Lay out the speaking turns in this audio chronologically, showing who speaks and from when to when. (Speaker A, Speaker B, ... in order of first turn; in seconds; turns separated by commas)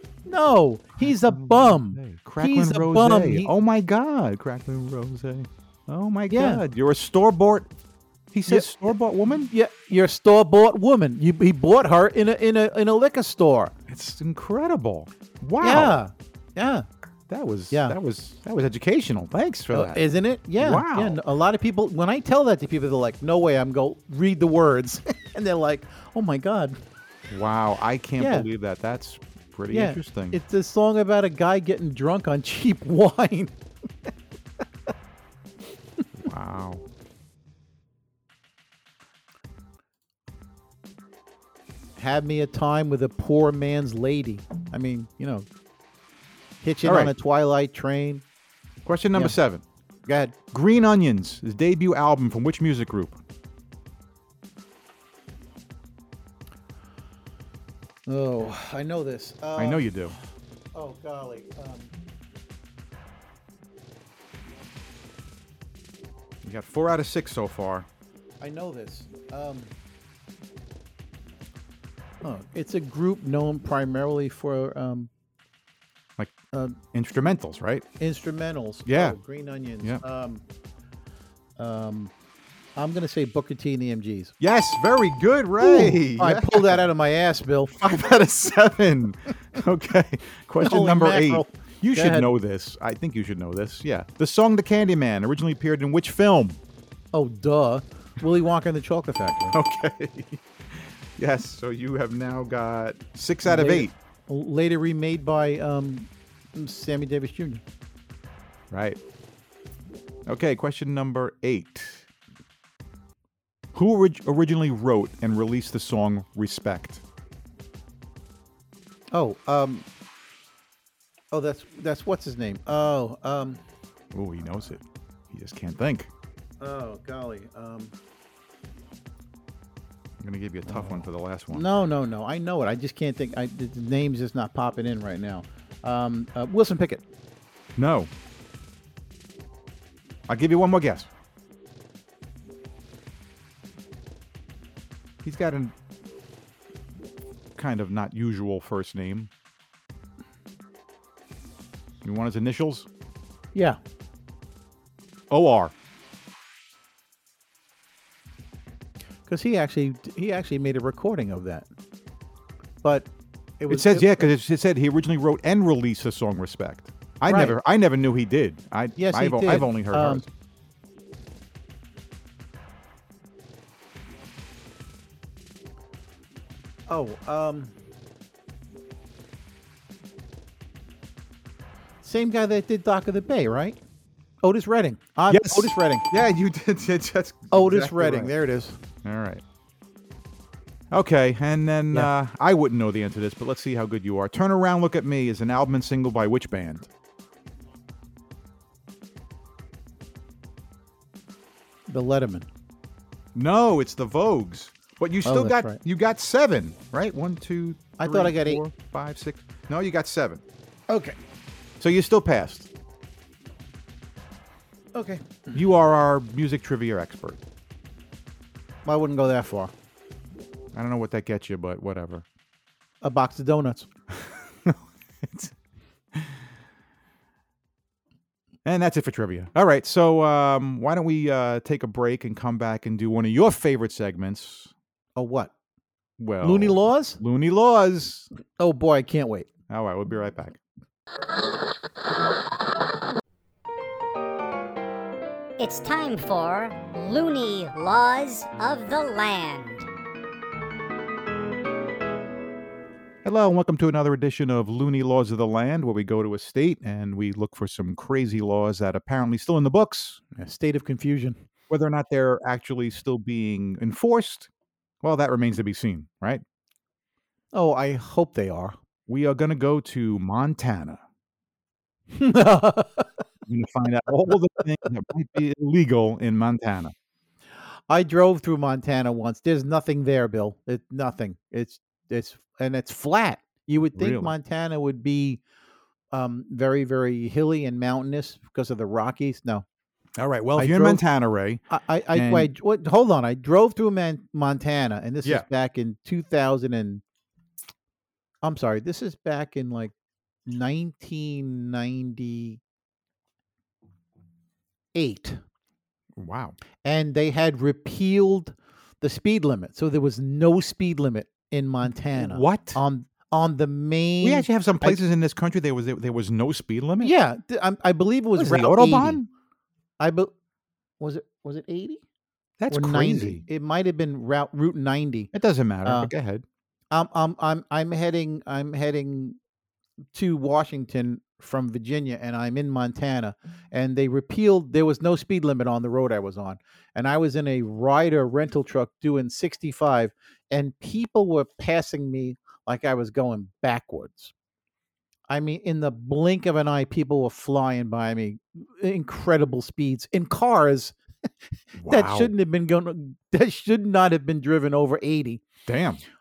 Speaker A: 0.2-3.5, Speaker B: 1.0-7.7, Speaker A: 6.3-6.6, Speaker B: 8.3-9.5, Speaker A: 9.5-13.7, Speaker B: 13.9-16.0, Speaker A: 15.6-16.9, Speaker B: 17.3-20.0, Speaker A: 17.7-17.9, Speaker A: 19.7-26.8, Speaker B: 20.6-21.2, Speaker B: 27.3-30.4, Speaker A: 28.2-28.5, Speaker A: 29.7-33.5, Speaker B: 36.1-36.8, Speaker A: 42.0-45.5, Speaker A: 46.6-48.2, Speaker B: 46.8-47.1, Speaker B: 48.8-49.6, Speaker A: 50.0-50.3, Speaker B: 50.5-53.2, Speaker A: 58.1-60.1, Speaker B: 59.5-60.1, Speaker A: 60.7-61.9, Speaker B: 66.4-67.9, Speaker A: 68.4-69.7, Speaker A: 72.2-75.1, Speaker A: 76.5-76.8, Speaker B: 76.9-77.8, Speaker A: 78.0-80.4, Speaker B: 78.8-79.2, Speaker A: 81.6-82.1, Speaker A: 82.8-84.3, Speaker B: 84.4-86.9, Speaker A: 85.6-87.8, Speaker B: 87.8-96.6, Speaker A: 90.6-92.3, Speaker A: 97.1-99.5, Speaker B: 99.5-103.9, Speaker A: 103.4-107.6, Speaker B: 108.7-109.0, Speaker B: 110.2-112.1, Speaker B: 113.7-117.0, Speaker A: 119.1-119.8, Speaker A: 121.3-123.6, Speaker B: 124.1-126.1, Speaker A: 126.6-127.9, Speaker B: 130.2-131.6, Speaker A: 130.7-137.0, Speaker B: 137.8-138.1, Speaker B: 140.3-141.1, Speaker B: 145.2-145.7, Speaker B: 147.6-149.3, Speaker B: 152.0-152.9, Speaker B: 155.3-155.7, Speaker A: 159.3-161.7, Speaker A: 162.8-163.1, Speaker A: 163.6-164.3, Speaker B: 163.7-170.3, Speaker A: 167.3-167.6, Speaker A: 168.9-170.2, Speaker A: 176.9-177.7, Speaker A: 182.0-183.8, Speaker A: 184.4-186.1, Speaker B: 185.3-188.3, Speaker A: 187.5-188.8, Speaker B: 189.0-189.4, Speaker B: 190.9-196.9, Speaker A: 201.9-202.5, Speaker B: 203.3-210.4, Speaker A: 205.2-205.8, Speaker A: 208.0-208.6, Speaker A: 210.9-211.2, Speaker B: 211.8-212.7, Speaker A: 214.9-215.6, Speaker B: 215.5-217.4, Speaker A: 218.8-219.7, Speaker B: 220.7-222.2, Speaker A: 223.0-223.9, Speaker B: 224.1-225.5, Speaker B: 228.6-234.7, Speaker A: 235.2-235.5, Speaker B: 236.2-238.3, Speaker A: 236.4-237.2, Speaker A: 238.6-239.5, Speaker B: 239.7-240.6, Speaker C: 245.6-249.8, Speaker B: 253.2-260.2, Speaker A: 260.4-261.4, Speaker B: 261.7-264.5, Speaker B: 265.0-266.4, Speaker A: 267.5-268.8, Speaker B: 269.1-271.0, Speaker A: 272.1-273.1, Speaker B: 273.5-276.9, Speaker A: 277.9-285.4, Speaker B: 283.9-284.3, Speaker A: 286.1-289.6, Speaker B: 290.2-292.5, Speaker A: 290.6-291.0, Speaker A: 291.7-297.0, Speaker A: 298.4-299.9, Speaker A: 300.4-302.6, Speaker A: 304.9-305.4, Speaker B: 306.1-306.6, Speaker A: 306.8-315.0, Speaker B: 312.1-312.8, Speaker B: 314.2-317.1, Speaker A: 317.0-319.2, Speaker B: 318.3-319.3, Speaker A: 320.0-320.3, Speaker A: 321.0-322.0, Speaker B: 322.6-323.4, Speaker A: 322.7-325.3, Speaker B: 325.3-326.4, Speaker A: 325.8-326.1, Speaker A: 326.9-329.4, Speaker A: 330.1-344.3, Speaker A: 345.3-350.9, Speaker B: 351.8-352.3, Speaker A: 351.9-355.4, Speaker B: 355.6-356.0